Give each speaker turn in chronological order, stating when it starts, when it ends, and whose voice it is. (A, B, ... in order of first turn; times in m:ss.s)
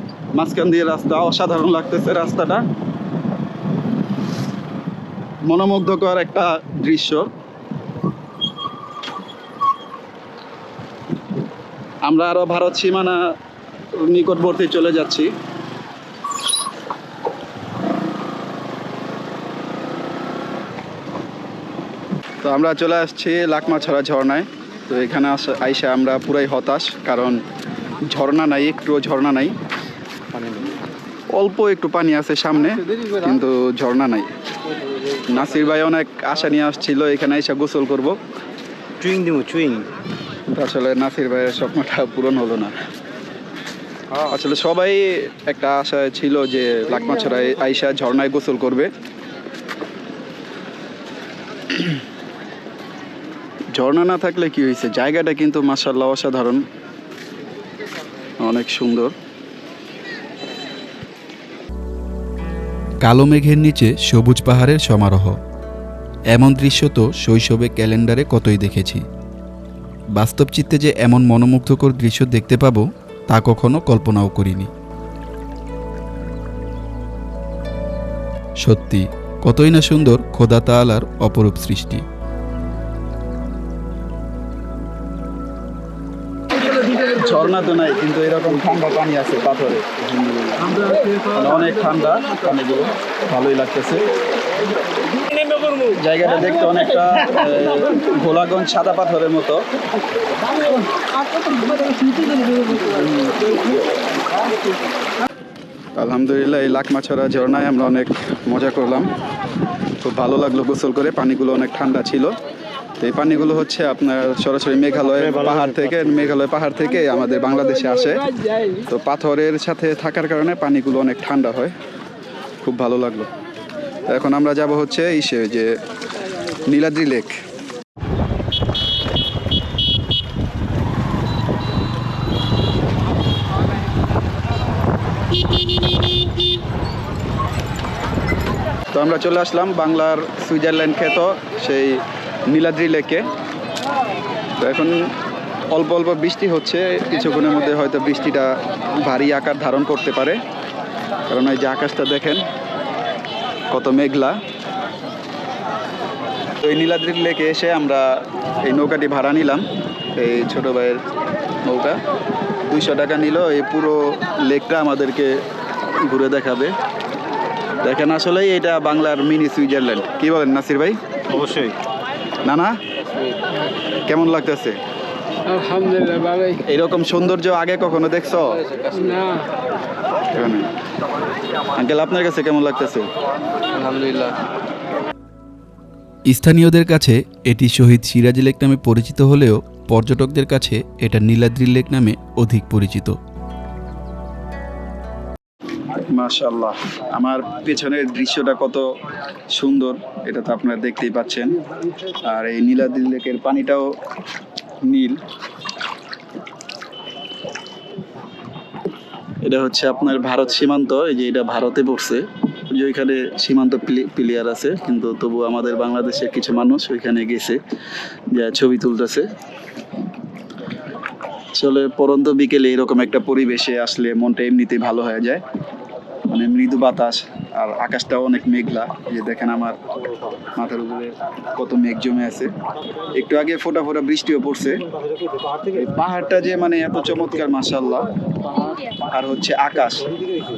0:00.3-0:02.6 A
0:05.5-0:07.3 A
0:12.0-0:13.2 A
0:13.9-0:15.3 A
0:22.4-0:27.4 A
0:28.0-0:29.5 A
0:30.3-0:30.8 B
0:31.3-0:34.3 A
0:35.3-0:38.2 A
0:39.0-0:39.9 B
0:40.5-0:42.7 A
0:44.2-0:48.9 A
0:53.8-0:56.6 A
0:58.4-0:59.1 A
1:03.0-1:05.3 C
1:06.3-1:09.0 C
1:10.1-1:14.7 C
1:18.6-1:22.0 C
1:26.7-1:29.8 A
1:30.6-1:34.0 A
1:35.8-1:39.6 A
1:42.9-1:43.4 A
1:46.0-1:49.1 A
1:50.0-1:52.3 A
1:53.0-1:58.3 A
1:55.1-1:56.3 B
1:58.8-2:01.7 A
2:02.6-2:03.3 A
2:04.1-2:05.7 A
2:06.6-2:07.4 A
2:18.9-2:23.2 A
2:24.6-2:25.1 A
2:25.7-2:30.4 A
2:31.3-2:32.4 A
2:33.7-2:34.4 A
2:36.6-2:39.6 A
2:40.2-2:41.0 A
2:41.6-2:42.0 A
2:42.7-2:45.3 A
2:46.0-2:46.7 A
2:47.8-2:51.0 A
2:51.3-2:51.8 B
2:52.4-2:52.8 A
2:54.0-2:54.8 A
2:55.5-2:56.6 D
2:56.7-2:58.6 A
2:58.8-2:59.4 D
3:00.3-3:00.7 A
3:01.8-3:03.1 A
3:03.8-3:04.3 D
3:06.3-3:13.2 C
3:16.0-3:18.8 A
3:19.5-3:21.6 A
3:22.2-3:23.9 A
3:24.8-3:25.2 A
3:29.4-3:37.6 A
3:38.3-3:39.2 A
3:41.5-3:45.4 A
3:46.3-3:49.8 A
3:50.5-3:52.5 A
3:53.1-3:54.8 A
3:55.7-3:58.1 A
3:59.1-4:00.0 A